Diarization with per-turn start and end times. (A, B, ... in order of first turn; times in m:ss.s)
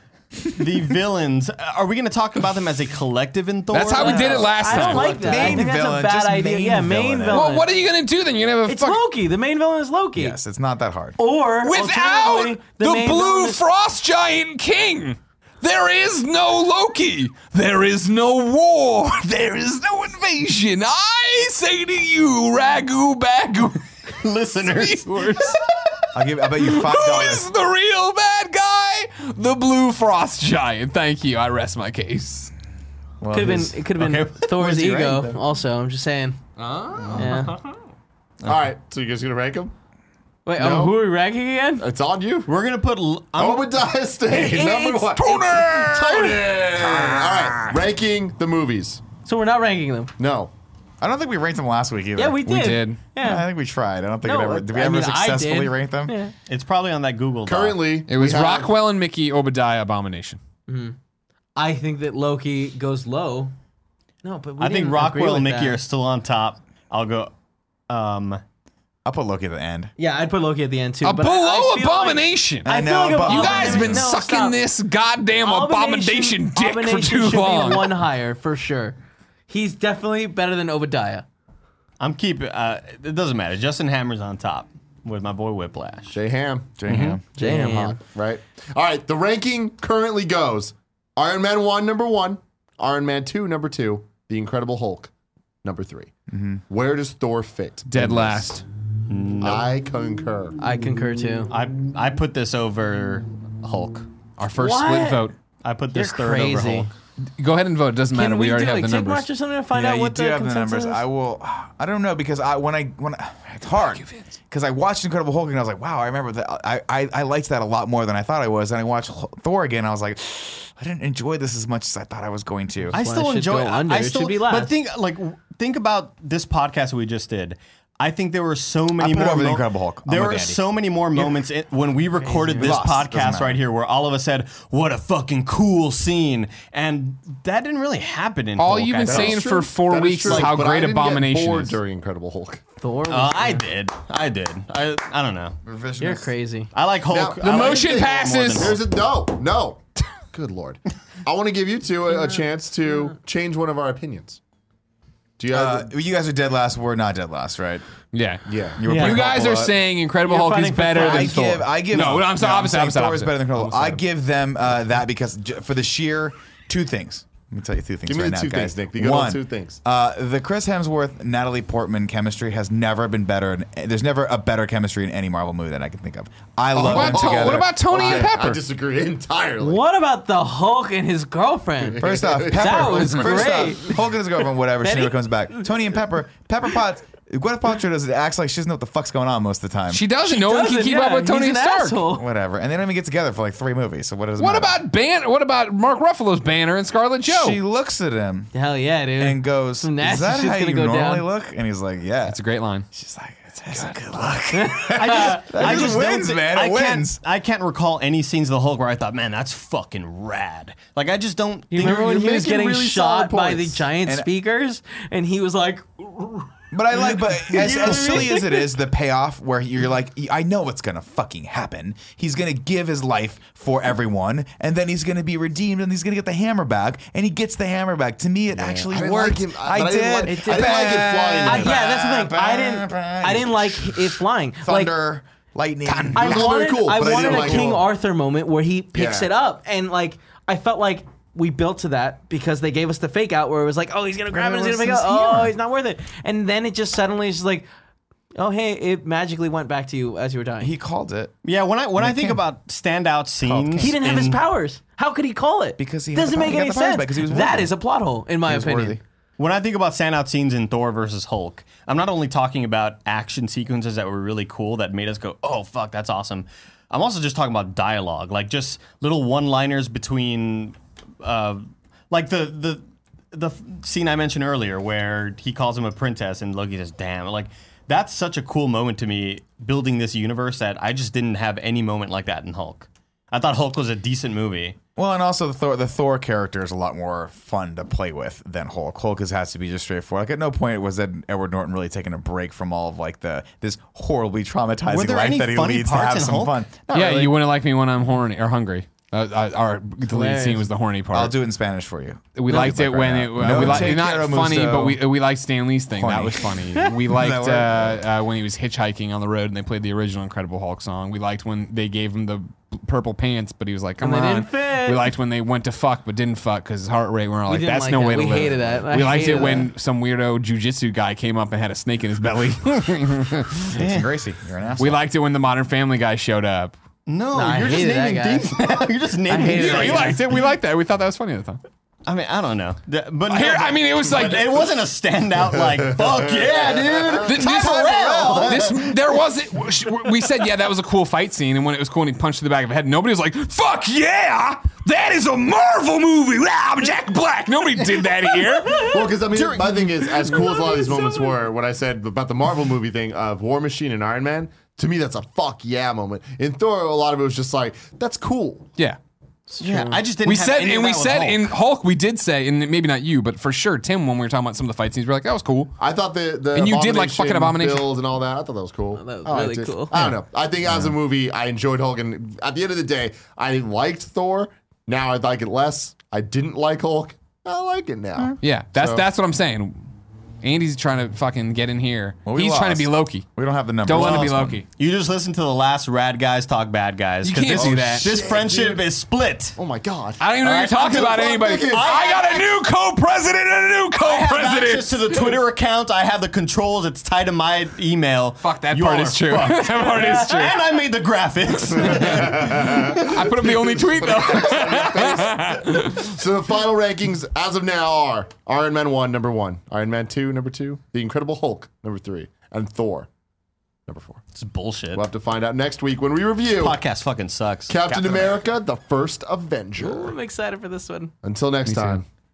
0:00.5-0:04.8 A
0:03.7-0:05.7 B
0:04.0-0:07.7 C
0:04.7-0:07.5 D
0:07.3-0:09.0 B
0:08.6-0:10.4 C
0:10.2-0:11.2 D
0:11.2-0:13.6 C
0:11.6-0:23.9 B
0:24.2-0:25.6 A
0:24.6-0:25.6 B
0:26.1-0:27.5 D
0:26.5-0:32.5 B
0:33.2-0:33.8 D
0:33.3-0:36.4 C
0:34.0-0:35.4 A
0:36.6-0:37.4 B
0:37.0-0:37.7 A
0:37.2-0:37.6 C
0:38.4-0:39.7 E
0:40.5-0:41.8 C
0:40.6-0:41.0 E
0:41.8-0:42.5 E
0:42.5-0:43.7 A
0:43.4-0:49.0 E
0:44.3-0:45.7 C
0:45.2-0:46.8 B
0:47.0-0:47.4 D
0:49.2-0:50.1 C
0:50.2-0:50.5 E
0:51.0-0:56.2 D
0:52.2-0:53.5 C
0:52.5-0:53.0 B
0:54.2-0:56.3 C
0:56.5-0:57.8 A
0:57.5-0:58.8 E
0:58.1-1:00.4 B
1:00.7-1:01.0 C
1:01.6-1:03.5 C
1:04.2-1:05.8 C
1:04.6-1:07.3 A
1:07.9-1:08.4 A
1:09.0-1:09.9 D
1:10.0-1:14.6 C
1:11.0-1:12.7 B
1:12.6-1:14.1 D
1:13.2-1:18.0 B
1:15.4-1:19.0 C
1:19.5-1:21.2 C
1:22.0-1:26.2 A
1:26.1-1:35.1 E
1:26.8-1:27.2 D
1:26.9-1:27.2 A
1:27.4-1:28.0 C
1:35.6-1:36.1 E
1:36.3-1:36.6 D
1:36.7-1:38.6 E
1:37.9-1:38.6 B
1:39.1-1:39.7 A
1:39.4-1:40.6 E
1:40.6-1:41.5 C
1:41.5-1:44.1 A
1:44.4-1:45.4 B
1:44.6-1:45.3 C
1:45.6-1:46.9 A
1:45.9-1:46.9 C
1:47.4-1:49.3 B
1:48.1-1:51.0 C
1:49.7-2:03.0 D
1:53.9-1:54.3 B
2:02.9-2:04.8 C
2:02.9-2:19.4 A
2:09.0-2:10.6 D
2:12.2-2:12.7 C
2:12.6-2:13.6 D
2:18.6-2:21.8 B
2:19.0-2:22.6 E
2:22.8-2:23.6 C
2:23.1-2:25.6 A
2:25.6-2:26.3 D
2:26.0-2:26.7 C
2:26.7-2:28.8 A
2:27.1-2:34.4 E
2:27.4-2:28.8 B
2:32.1-2:32.4 C
2:35.4-2:35.9 E
2:35.5-2:37.9 D
2:38.1-2:44.0 B
2:38.5-2:38.8 E
2:38.8-2:39.8 D
2:38.9-2:39.2 C
2:40.3-2:41.3 A
2:40.4-2:41.4 C
2:41.0-2:58.3 D
2:48.1-2:49.8 E
2:56.8-2:59.8 E
2:56.8-2:58.6 B
2:59.6-3:04.0 C
3:01.8-3:03.7 E
3:02.0-3:10.1 D
3:04.8-3:05.6 C
3:09.9-3:12.1 B
3:10.2-3:12.2 C
3:12.1-3:14.7 D
3:14.4-3:17.6 B
3:17.2-3:18.5 D
3:18.5-3:21.3 C
3:19.2-3:22.4 D
3:22.3-3:22.9 B
3:22.9-3:27.2 D
3:24.5-3:25.5 C
3:24.9-3:33.5 A
3:31.7-3:36.5 C
3:31.8-3:32.5 E
3:34.0-3:34.3 D
3:36.7-3:57.8 D
3:37.5-3:38.4 A
3:37.5-3:38.4 C
3:48.6-3:51.8 E
3:50.3-3:55.0 C
3:56.1-3:57.9 E
3:56.1-4:07.7 C
3:58.9-3:59.3 E
4:04.3-4:05.6 D
4:08.4-4:10.7 C
4:10.6-4:11.3 D
4:11.4-4:14.4 A
4:12.0-4:12.4 D
4:13.4-4:14.0 D
4:13.8-4:19.0 C
4:15.8-4:17.8 D
4:18.4-4:19.0 D
4:19.4-4:44.8 A
4:45.0-4:56.8 D
4:54.9-4:57.3 A
4:56.9-5:01.4 B
5:00.0-5:00.7 C
5:01.1-5:05.0 D
5:02.4-5:23.8 B
5:06.0-5:08.0 D
5:14.0-5:15.1 C
5:17.5-5:19.7 C
5:23.7-5:25.0 D
5:24.8-5:26.7 B
5:27.1-5:30.2 A
5:27.3-5:30.2 C
5:29.5-5:31.6 B
5:32.1-5:38.9 A
5:33.3-5:34.7 B
5:35.8-5:38.4 E
5:37.2-5:49.2 B
5:48.8-5:58.7 E
5:49.3-5:50.5 A
5:59.6-6:01.6 A
5:59.6-6:05.8 B
6:05.8-6:19.1 E
6:06.5-6:07.9 B
6:09.0-6:09.9 C
6:18.4-6:19.8 B
6:20.4-6:23.2 B
6:22.2-6:24.6 D
6:23.8-6:24.7 B
6:23.9-6:29.6 A
6:27.2-6:28.1 B
6:27.5-6:28.9 E
6:29.6-6:32.3 E
6:30.2-6:35.4 B
6:31.7-6:32.4 A
6:34.0-6:43.1 A
6:38.4-6:40.6 B
6:42.0-6:53.1 E
6:42.0-6:46.1 B
6:53.9-6:54.2 E
6:54.4-6:55.1 A
6:54.9-6:56.8 E
6:56.6-6:58.4 A
6:57.7-7:00.2 E
6:59.8-7:01.1 C
7:01.2-7:02.0 E
7:01.7-7:02.0 B